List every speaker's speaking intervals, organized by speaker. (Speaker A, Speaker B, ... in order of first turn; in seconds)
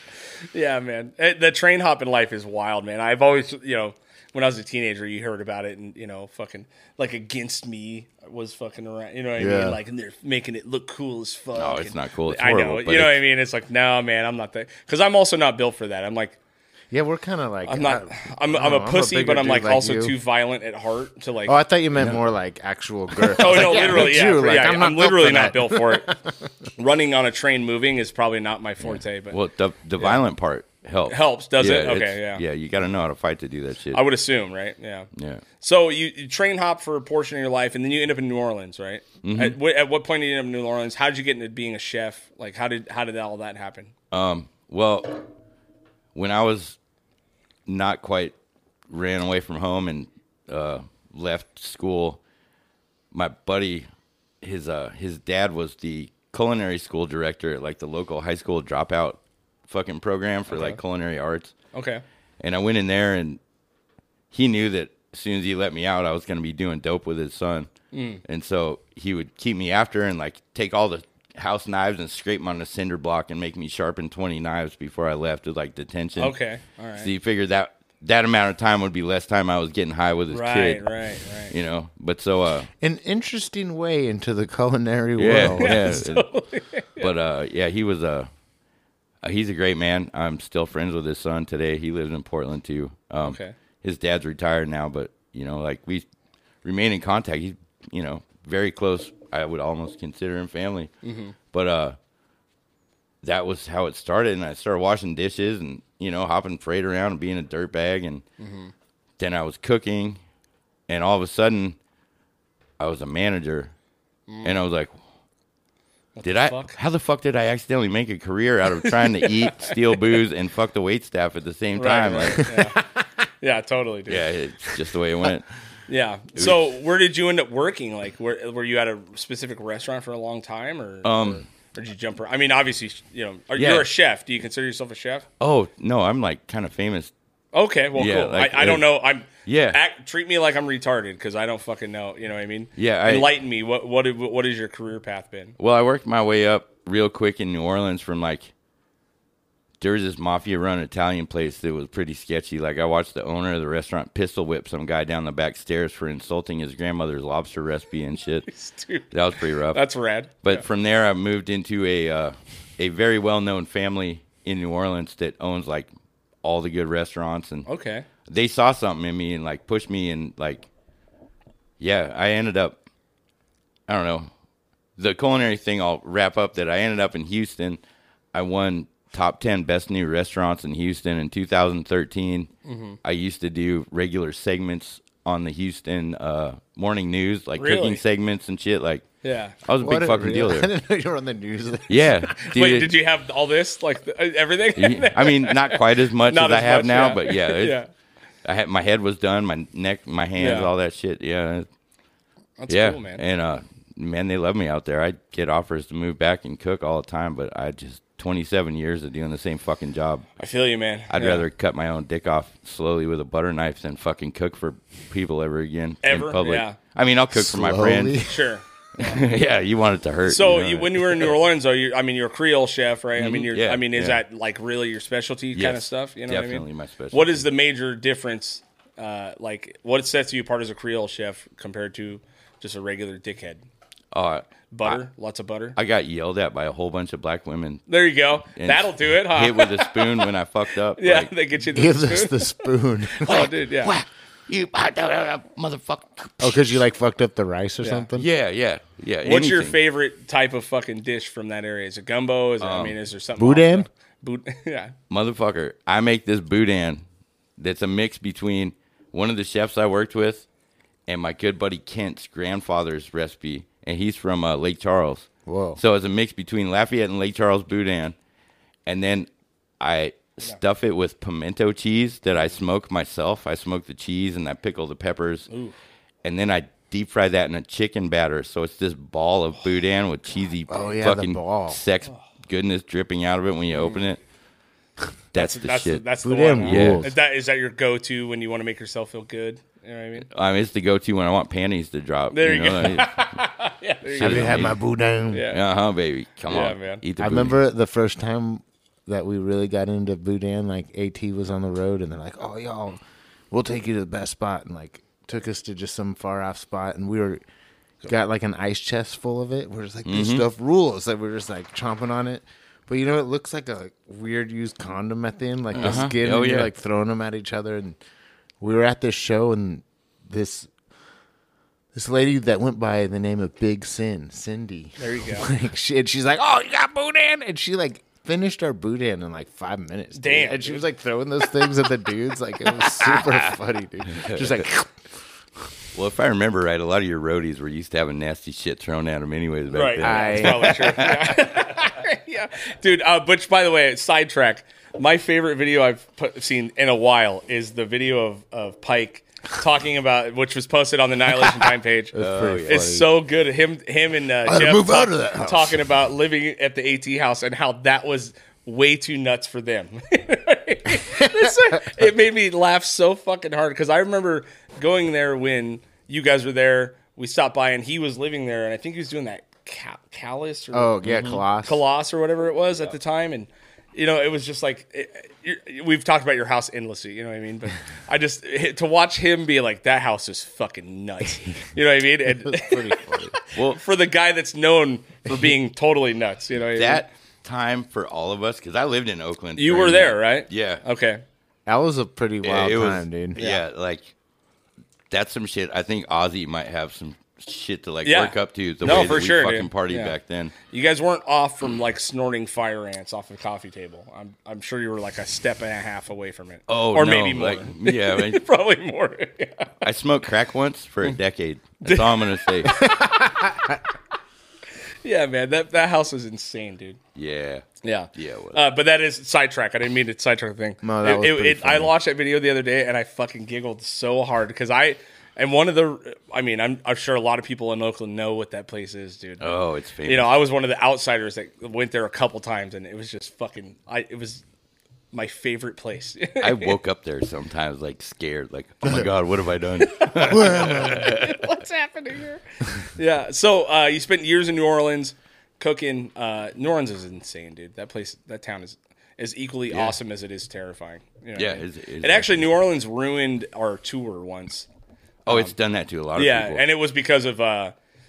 Speaker A: 0.5-16.4, 17.7-21.6, 23.3-26.1, 26.8-29.4, 31.1-32.4, 33.9-43.9, 60.5-60.8, 61.7-62.0, 67.9-68.2, 76.2-77.1, 80.3-81.5, 85.4-87.1, 93.2-93.5, 101.0-101.3, 108.4-108.7, 114.3-114.5, 116.2-116.8, 118.8-119.9, 121.8-122.8, 123.4-124.3, 125.9-135.2, 137.5-145.6, 158.5-160.6, 167.7-168.1, 182.6-183.0, 187.6-188.0, 189.2-189.6, 192.3-197.9, 200.4-200.7, 202.6-203.2, 210.4-211.4, 216.0-216.8, 218.2-219.3, 220.2-233.6, 234.7-235.8, 237.9-240.3, 241.0-243.9, 247.8-248.1, 249.2-254.9, 275.5-275.8, 283.7-284.0, 285.4-290.3, 292.3-294.7, 295.3-295.6, 296.5-297.0, 325.0-325.5, 330.1-330.8, 339.7-387.1, 389.6-391.2, 393.4-393.6, 398.0-409.7, 411.8-413.0, 415.0-417.0, 417.8-429.5, 430.0-434.4, 435.1-436.8, 439.8-454.7, 455.3-455.5, 456.1-457.7
Speaker B: 9.4-9.8, 16.9-20.1, 21.4-26.5, 82.8-86.0, 189.8-192.1, 217.3-218.5, 241.6-243.5, 246.4-248.3, 253.4-253.9, 265.4-265.8, 280.7-281.8, 286.2-287.1, 294.2-295.5, 297.2-307.4, 308.0-318.0, 318.6-320.7, 321.9-335.1, 340.0-340.9, 352.1-353.1, 354.4-355.9, 361.1-361.8, 370.7-371.8, 382.4-383.4, 391.6-393.4, 412.8-413.8, 420.8-421.9, 440.3-441.0
Speaker C: 11.5-13.2, 23.5-24.0, 28.8-34.0, 35.1-35.4, 39.2-39.6, 44.1-45.2, 46.1-46.8, 47.7-48.3, 48.9-52.2, 53.1-53.9, 54.4-61.5, 62.4-63.4, 64.3-67.7, 68.2-76.3, 77.0-80.8, 81.5-82.7, 85.2-86.2, 87.0-88.3, 89.2-96.0, 96.6-100.9, 101.5-102.0, 103.2-108.2, 109.2-110.2, 110.9-111.8, 112.8-113.7, 114.4-115.0, 116.2-122.5, 124.1-125.5, 131.0-131.4, 133.6-133.9, 135.4-137.1, 137.9-138.8, 139.4-139.8, 142.8-143.3, 145.6-148.5, 149.8-158.5, 159.1-159.8, 160.4-165.9, 166.4-167.7, 168.2-170.7, 171.8-172.8, 173.9-174.3, 175.0-177.8, 178.3-182.5, 183.0-189.1, 189.6-190.7, 191.9-192.9, 194.8-197.8, 198.4-201.7, 202.7-210.3, 211.1-218.2, 219.0-221.3, 223.2-224.2, 225.5-227.4, 234.1-235.0, 235.7-237.8, 238.5-241.3, 243.2-246.8, 248.1-249.8, 252.6-252.9, 255.1-257.0, 257.6-260.4, 261.1-268.1, 268.9-275.5, 276.2-284.2, 285.3-286.1, 286.6-287.1, 290.3-293.2, 294.1-294.8, 295.5-297.6, 310.0-310.4, 315.7-316.7, 334.1-334.5, 335.9-341.4, 352.1-353.0, 371.1-371.4, 383.5-383.8, 386.7-390.8, 392.4-394.1, 395.1-400.5, 406.7-408.4, 409.8-412.9, 417.1-418.6, 429.4-430.3, 436.4-441.5, 449.7-449.9, 451.4-452.5, 455.2-456.6